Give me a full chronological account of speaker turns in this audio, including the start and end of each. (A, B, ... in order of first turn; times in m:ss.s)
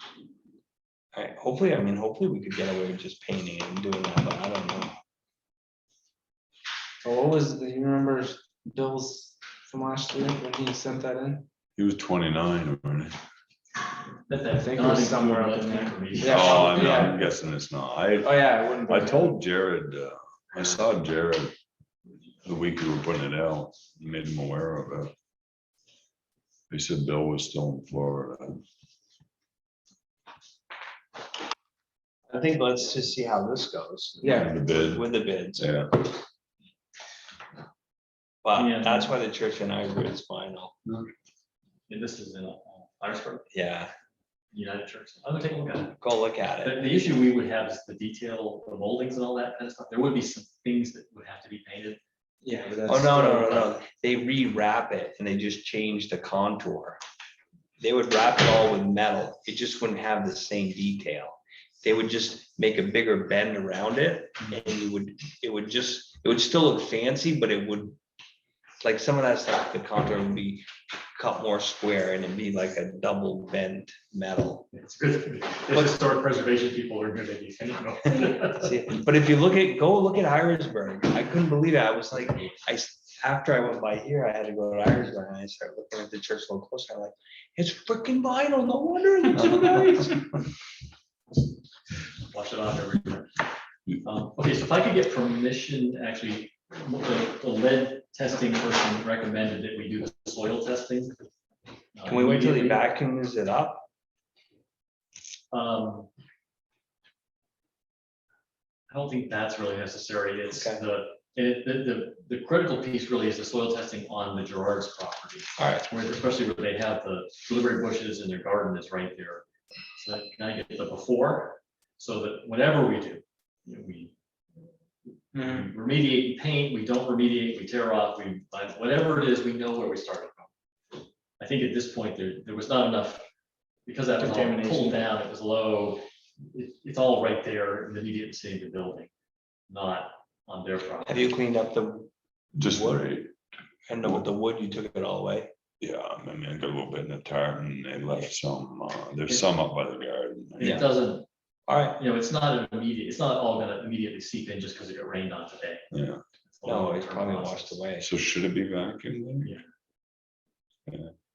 0:01.1-0:04.9 A
0:07.0-0:11.4 B
0:11.8-0:13.1 C
0:14.3-0:16.9 D
0:14.6-0:17.2 B
0:16.2-0:21.6 C
0:18.2-0:19.4 B
0:22.4-0:25.1 C
0:26.7-0:28.6 C
0:32.3-0:35.7 A
0:34.2-0:36.0 C
0:34.2-0:34.5 B
0:38.4-0:40.8 A
0:38.6-0:39.1 D
0:41.9-0:43.5 D
0:43.5-0:43.9 A
0:44.5-0:46.0 D
0:46.0-0:46.9 A
0:46.6-0:52.0 D
0:52.4-0:53.6 B
0:52.9-0:57.0 A
0:57.8-1:08.0 A
1:08.8-1:14.7 A
1:14.7-1:18.7 D
1:18.4-1:30.4 A
1:32.3-1:33.3 D
1:34.0-1:41.3 D
1:42.0-1:42.9 D
1:42.1-1:43.8 A
1:45.5-1:46.1 D
1:48.9-1:59.4 D
1:50.5-1:50.8 A
1:55.6-1:55.9 A
2:00.0-2:04.1 D
2:05.3-2:05.7 B
2:05.4-2:10.5 D
2:11.4-2:13.2 D
2:13.9-2:19.1 D
2:14.2-2:15.0 B
2:19.7-2:21.3 D
2:21.1-2:23.0 A
2:22.6-2:23.3 C
2:23.9-2:25.5 A
2:25.8-2:30.9 C
2:30.6-2:31.3 D
2:30.6-2:30.9 A
2:31.7-2:32.0 A
2:32.0-2:35.8 D
2:35.9-2:36.2 C
2:36.5-2:37.8 D
2:36.6-2:38.1 A
2:38.0-2:39.5 C